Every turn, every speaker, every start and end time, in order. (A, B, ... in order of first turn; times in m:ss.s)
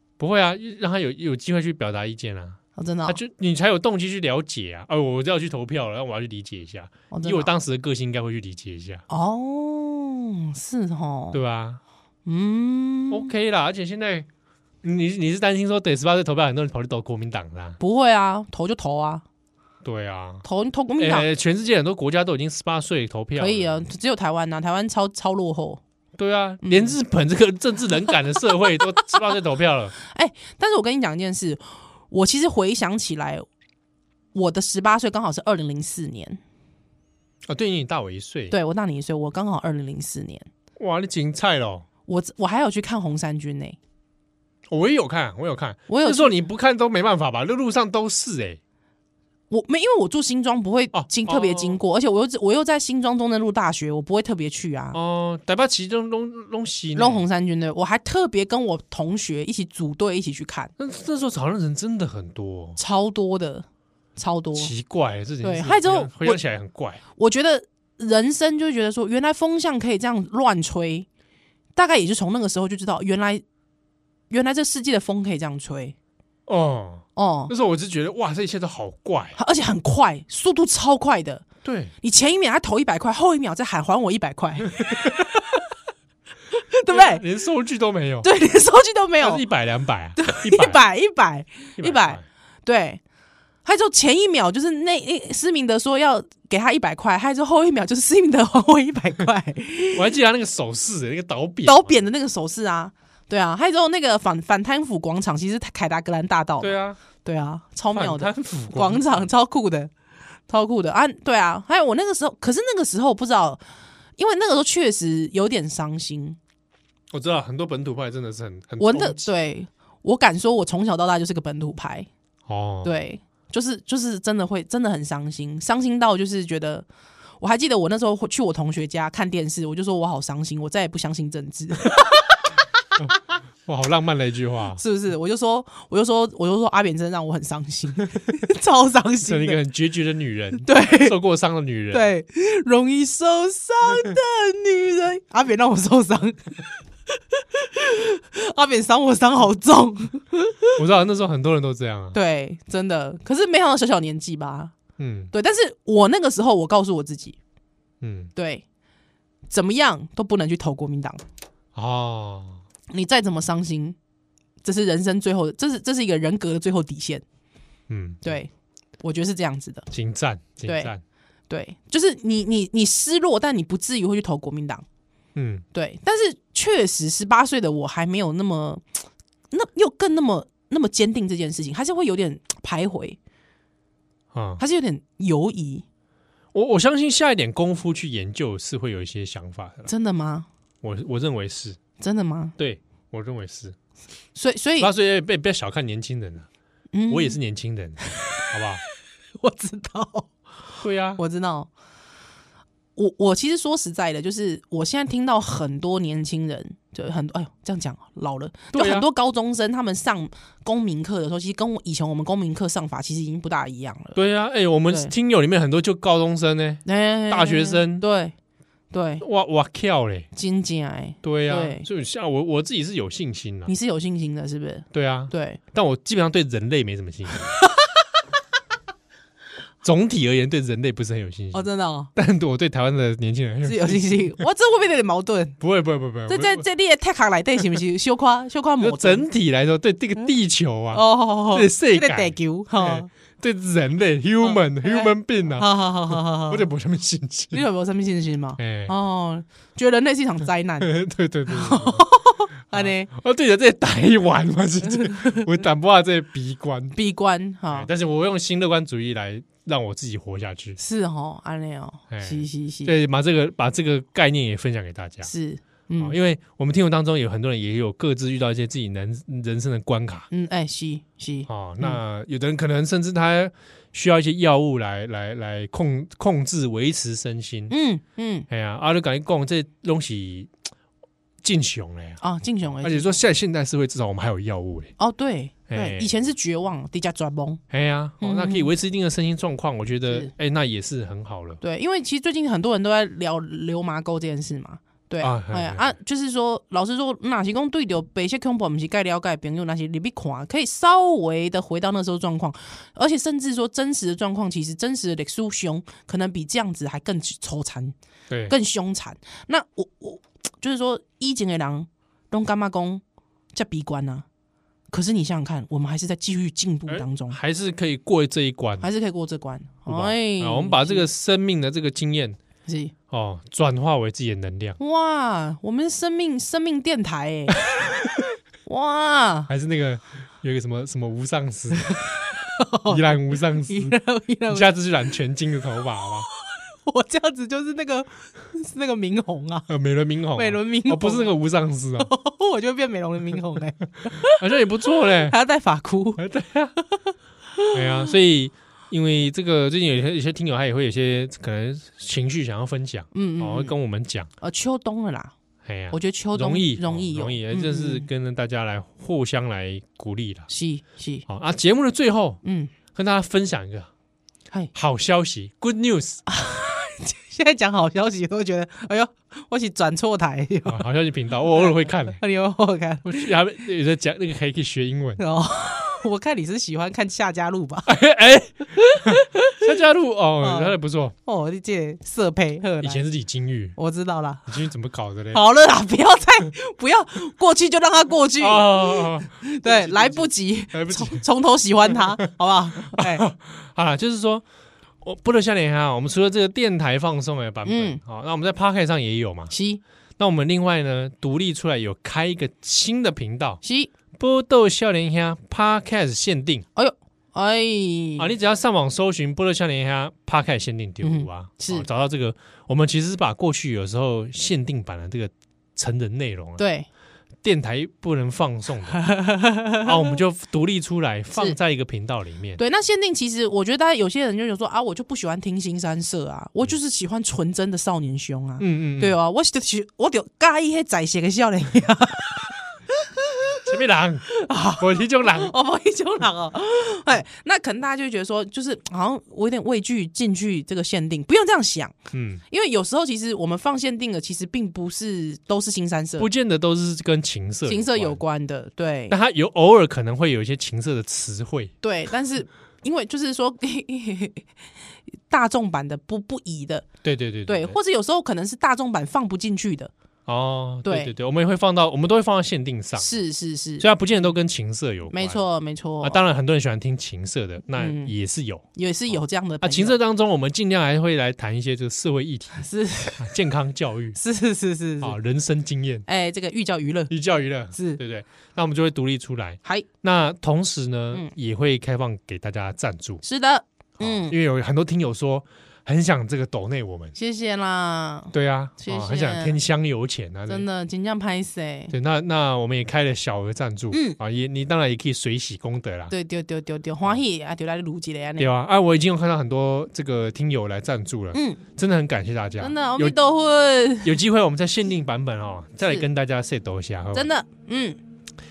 0:00.2-0:09.0 A
0:02.8-0:03.2 B
0:07.1-0:07.5 B
0:09.1-0:11.4 B
0:11.3-0:11.8 A
0:12.2-0:13.3 B
0:13.1-0:14.3 A
0:14.8-0:17.8 A
0:17.8-0:19.2 B
0:19.8-0:20.4 A
0:20.4-0:21.3 B
0:21.0-0:23.8 A
0:23.4-0:25.8 B
0:26.2-0:29.9 A
0:26.6-0:26.9 B
0:30.0-0:33.4 B
0:34.3-0:36.4 B
0:37.5-0:38.5 A
0:38.5-0:40.5 B
0:40.8-0:41.8 A
0:42.1-0:43.8 B
0:44.7-0:48.6 A
0:45.9-0:46.4 B
0:49.5-0:55.0 B
0:50.9-0:51.8 A
0:54.9-0:57.2 A
0:56.9-1:00.7 B
1:00.8-1:02.8 A
1:02.8-1:04.7 B
1:04.6-1:07.0 A
1:05.4-1:06.4 B
1:07.2-1:11.1 B
1:11.8-1:13.4 B
1:14.3-1:15.9 B
1:16.5-1:19.4 A
1:17.2-1:17.5 B
1:19.4-1:21.4 B
1:21.6-1:21.9 A
1:22.0-1:25.5 B
1:24.9-1:25.2 A
1:26.5-1:27.2 B
1:26.9-1:28.3 A
1:28.2-1:29.4 B
1:29.2-1:30.8 A
1:30.2-1:33.0 B
1:31.8-1:32.2 A
1:33.6-1:40.0 B
1:39.9-1:42.0 A
1:41.6-1:49.9 B
1:46.6-1:47.0 A
1:47.9-1:49.2 A
1:50.5-1:53.6 B
1:54.2-1:56.4 B
1:57.1-1:59.3 A
1:58.8-2:02.1 B
2:02.5-2:02.9 A
2:02.8-2:06.8 B
2:07.4-2:12.5 B
2:13.6-2:14.8 A
2:14.8-2:19.6 B
2:19.2-2:22.1 A
2:20.6-2:21.2 B
2:21.9-2:26.6 B
2:27.3-2:30.8 B
2:30.8-2:32.2 A
2:32.1-2:34.8 B
2:35.0-2:35.3 A
2:35.3-2:37.4 B
2:38.0-2:38.3 A
2:38.3-2:38.6 B
2:39.5-2:41.2 B
2:41.7-2:42.6 A
2:42.9-2:44.0 B
2:44.6-2:47.2 B
2:47.9-2:48.2 A
2:48.2-2:49.9 B
2:49.9-2:51.0 A
2:50.6-2:50.9 B
2:51.5-2:54.8 B
2:55.3-2:55.6 A
2:55.7-2:58.8 B
2:59.5-3:03.2 B
3:04.3-3:04.6 A
3:04.6-3:05.8 B
3:06.5-3:09.9 A
3:09.9-3:10.5 B
3:10.8-3:11.8 A
3:12.0-3:12.6 B
3:12.6-3:13.8 A
3:14.3-3:14.9 B
3:14.8-3:16.5 A
3:16.9-3:17.4 B
3:17.1-3:18.8 A
3:19.4-3:20.3 B
3:20.8-3:21.2 A
3:21.2-3:21.7 B
3:23.0-3:34.2 B
3:28.7-3:29.0 A
3:34.2-3:38.0 A
3:36.8-3:38.3 B
3:38.9-3:39.2 B
3:39.2-3:40.3 A
3:40.3-3:41.9 B
3:41.2-3:43.7 A
3:43.7-3:45.6 B
3:44.9-3:47.6 A
3:47.6-3:47.9 B
3:49.8-3:54.4 A
3:51.5-3:52.1 B
3:53.6-3:55.6 B
3:55.6-3:56.6 A
3:56.3-3:59.2 B
3:58.8-4:07.6 A
4:00.9-4:03.1 B
4:04.4-4:06.7 B
4:07.5-4:11.0 B
4:08.6-4:08.9 A
4:10.8-4:12.1 A
4:11.5-4:13.1 B
4:12.7-4:17.0 A
4:14.8-4:15.5 B
4:16.9-4:17.9 B
4:17.7-4:20.8 A
4:20.8-4:22.9 B
4:22.1-4:25.3 A
4:25.2-4:26.2 B
4:26.0-4:30.3 A
4:30.3-4:32.0 B
4:31.5-4:37.7 A
4:37.7-4:38.5 B
4:38.5-4:40.5 A
4:41.4-4:42.2 A
4:42.2-4:43.2 B
4:42.8-4:44.9 A
4:45.0-4:47.6 B
4:45.7-4:46.1 A
4:47.7-4:51.6 A
4:48.2-4:48.7 B
4:51.6-5:07.9 B
4:55.2-4:55.9 A
5:08.3-5:08.5 A
5:08.5-5:14.2 B
5:14.9-5:17.4 B
5:16.9-5:18.9 A
5:18.8-5:21.1 B
5:19.9-5:22.4 A
5:22.7-5:22.9 B
5:23.1-5:24.8 A
5:24.8-5:29.5 B
5:29.5-5:32.1 A
5:32.6-5:34.7 B
5:32.8-5:34.0 A
5:34.5-5:36.3 A
5:36.3-5:39.7 B
5:39.7-5:42.1 A
5:40.3-5:41.3 B
5:42.0-5:46.2 B
5:44.3-5:45.4 A
5:46.2-5:46.7 A
5:46.9-5:48.0 B
5:47.7-5:54.3 A
5:53.1-5:53.7 B
5:54.4-5:55.3 B
5:55.6-6:00.5 A
5:55.9-5:58.1 B
6:00.5-6:01.2 B
6:01.3-6:02.4 A
6:02.4-6:02.7 B
6:02.9-6:03.9 A
6:04.7-6:06.2 A
6:06.3-6:10.8 B
6:10.6-6:12.2 A
6:11.6-6:13.3 B
6:13.0-6:15.2 A
6:15.2-6:17.9 B
6:17.9-6:21.1 A
6:18.7-6:19.6 B
6:20.4-6:23.0 B
6:22.8-6:23.8 A
6:23.8-6:24.4 B
6:24.5-6:25.4 A
6:25.3-6:33.2 B
6:28.4-6:31.2 A
6:31.9-6:32.1 A
6:32.8-6:34.4 A
6:35.0-6:39.5 A
6:37.6-6:38.0 B
6:39.5-6:39.8 B
6:40.2-6:43.6 A
6:43.6-6:43.9 B
6:44.1-6:46.7 A
6:46.8-6:48.3 B
6:48.2-6:56.6 A
6:51.0-6:51.9 B
6:56.6-6:56.9 B
6:57.4-6:59.1 A
6:59.0-7:00.2 B
6:59.8-7:02.6 A
7:02.6-7:13.7 B
7:08.6-7:09.2 A
7:13.6-7:14.3 A
7:14.3-7:21.9 B
7:14.8-7:15.5 A
7:22.1-7:22.4 A
7:22.5-7:26.3 B
7:26.2-7:28.2 A
7:27.7-7:29.2 B
7:29.1-7:31.7 A
7:31.8-7:34.5 B
7:35.3-7:36.9 B
7:37.0-7:37.8 A
7:37.5-7:39.9 B
7:40.2-7:43.2 A
7:40.8-7:41.1 B
7:43.0-7:43.8 B
7:43.8-7:45.4 A
7:45.1-7:46.2 B
7:46.0-7:52.6 A
7:47.8-7:48.1 B
7:48.7-7:50.0 B
7:52.6-7:53.3 B
7:53.2-7:54.2 A
7:54.2-7:55.2 B
7:55.0-7:56.0 A
7:56.0-7:57.1 B
7:57.1-8:03.2 A
7:57.7-7:58.0 B
8:03.2-8:04.4 B
8:04.0-8:07.2 A
8:07.2-8:09.6 B
8:08.3-8:10.6 A
8:10.5-8:11.9 B
8:11.9-8:16.1 A
8:13.9-8:14.2 B
8:16.1-8:18.5 B
8:18.4-8:23.2 A
8:21.3-8:21.6 B
8:22.6-8:24.1 B
8:24.0-8:27.3 A
8:27.1-8:28.0 B